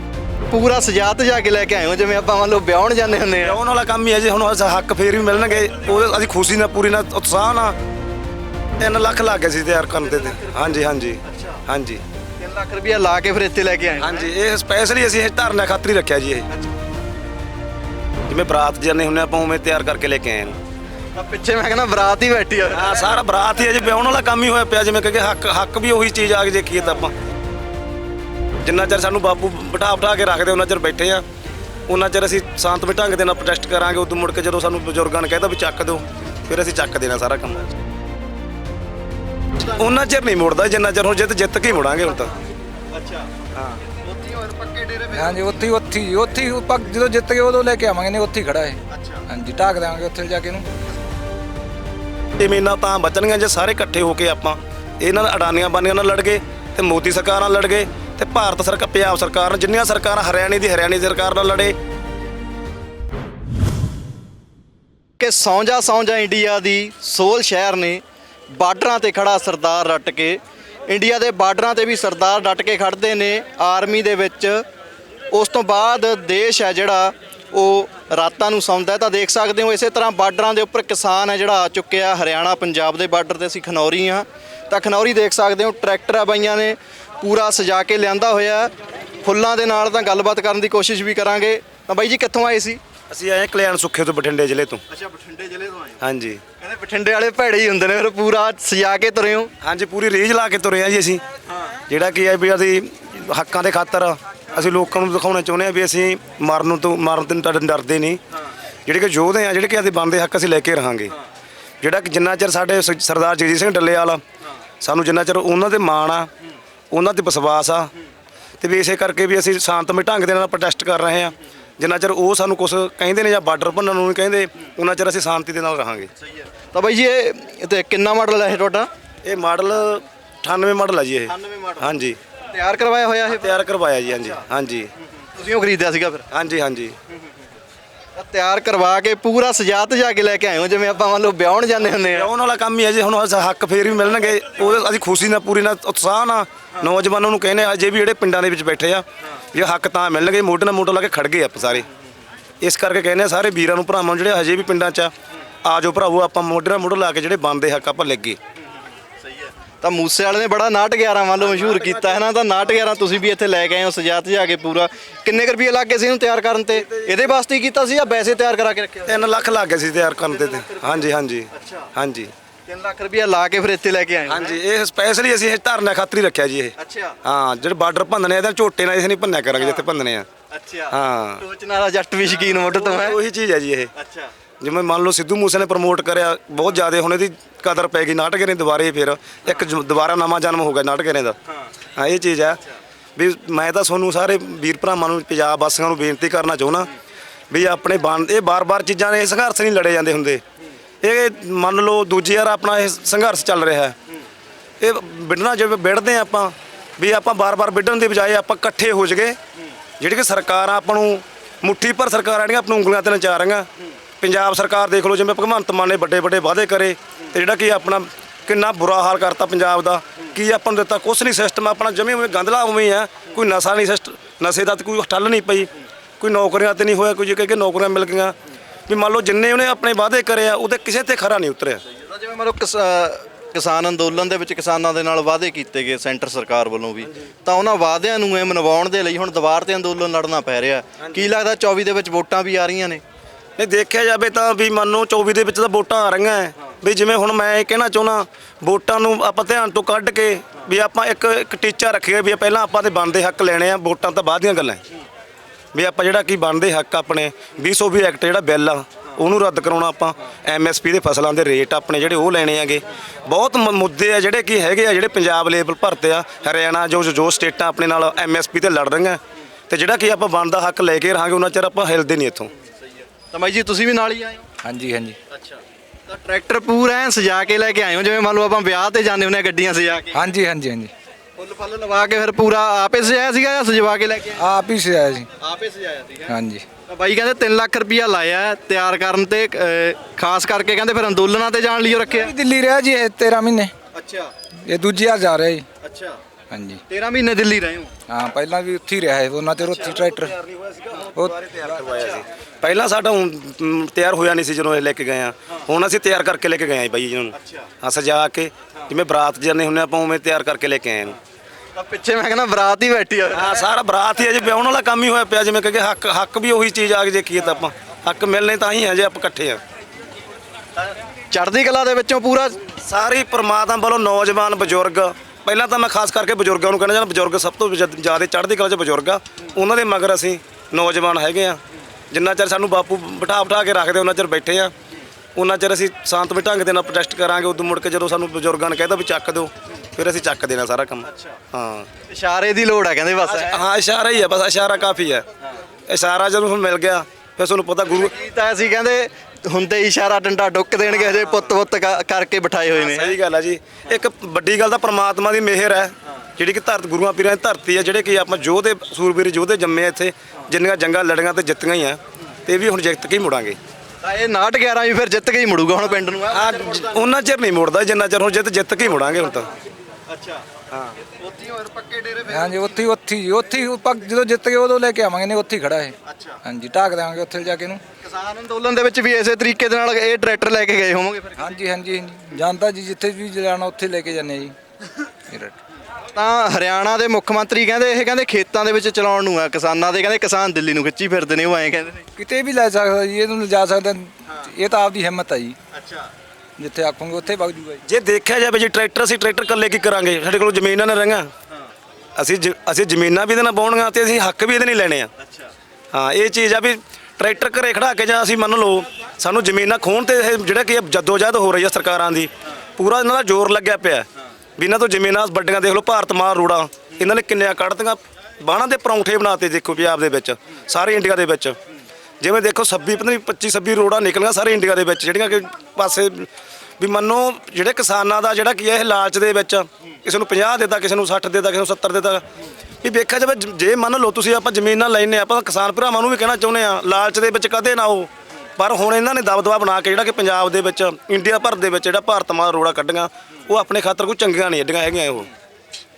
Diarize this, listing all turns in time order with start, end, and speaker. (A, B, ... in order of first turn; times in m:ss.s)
0:00.5-0:03.6 A
0:03.4-0:07.8 B
0:08.8-0:12.0 B
0:10.0-0:11.6 A
0:12.4-0:14.3 A
0:14.0-0:16.5 B
0:18.3-0:20.6 B
0:21.1-0:23.1 A
0:22.7-0:27.1 B
0:28.6-0:31.2 B
0:31.9-0:37.7 B
0:39.6-0:42.3 B
0:42.9-0:43.3 A
0:43.9-0:45.6 A
0:45.1-0:50.7 C
0:48.9-0:49.2 A
0:52.4-1:01.8 B
1:05.2-1:08.0 A
1:08.6-1:14.6 A
1:15.3-1:28.7 A
1:29.2-1:32.8 A
1:33.1-1:34.8 B
1:34.9-1:36.0 A
1:36.0-1:36.4 B
1:36.6-1:39.5 A
1:39.6-1:41.2 B
1:41.9-1:48.2 B
1:48.9-1:51.2 B
1:51.8-1:54.2 B
1:54.8-1:56.3 B
1:56.9-1:57.9 B
1:58.6-2:06.1 B
2:06.2-2:08.9 A
2:09.2-2:12.2 B
2:11.3-2:13.6 A
2:13.3-2:14.9 B
2:15.3-2:16.2 A
2:16.3-2:17.0 B
2:18.2-2:22.3 A
2:22.1-2:31.9 B
2:32.6-2:35.1 B
2:35.6-2:38.4 B
2:39.2-2:49.3 A
2:41.6-2:42.1 B
2:46.8-2:47.1 B
2:49.1-2:52.3 B
2:50.2-2:51.9 A
2:52.7-2:54.6 A
2:54.3-3:00.3 B
2:56.8-2:57.2 A
2:59.6-2:59.8 A
3:00.5-3:03.2 A
3:00.9-3:01.4 B
3:02.4-3:03.9 B
3:03.9-3:04.3 A
3:04.6-3:11.4 B
3:11.9-3:12.6 B
3:13.2-3:16.9 B
3:17.5-3:20.4 B
3:21.0-3:24.0 B
3:24.8-3:29.4 B
3:30.0-3:33.7 B
3:34.2-3:48.3 B
3:48.9-3:51.8 B
3:51.9-4:03.0 A
4:01.0-4:01.2 B
4:03.6-4:14.8 B
4:15.7-4:32.5 B
4:33.2-4:34.4 A
4:34.6-4:35.2 C
4:35.3-4:40.2 A
4:40.1-4:40.9 C
4:41.4-4:44.5 A
4:44.4-4:45.3 C
4:45.4-4:46.4 A
4:46.3-4:46.6 C
4:46.9-4:52.3 A
4:52.1-4:53.7 C
4:53.9-4:54.3 A
4:54.6-4:55.6 C
4:55.8-4:56.2 A
4:56.5-4:56.8 C
4:56.9-4:57.9 A
4:58.1-5:00.4 C
4:59.6-5:11.2 B
5:01.2-5:01.8 C
5:07.4-5:07.7 A
5:11.8-5:13.6 A
5:13.3-5:19.6 B
5:21.3-5:22.6 A
5:22.8-5:34.7 B
5:35.4-5:41.9 B
5:41.1-5:41.4 A
5:42.1-5:43.6 A
5:43.2-5:45.2 B
5:45.9-5:48.1 B
5:47.9-5:53.1 A
5:52.8-6:03.6 B
6:04.0-6:07.0 A
6:06.3-6:09.5 B
6:10.1-6:10.4 A
6:10.7-6:11.0 B
6:11.0-6:12.8 A
6:12.3-6:17.8 C
6:16.1-6:16.4 A
6:18.0-6:21.6 A
6:21.4-6:24.6 C
6:25.3-6:25.6 C
6:26.1-6:32.1 A
6:32.2-6:35.6 C
6:35.7-6:36.1 A
6:36.6-6:37.8 C
6:37.8-6:41.3 B
6:42.2-6:45.1 B
6:45.2-6:45.5 A
6:45.9-6:54.1 B
6:54.6-7:01.6 B
7:02.2-7:12.2 B
7:12.8-7:25.3 B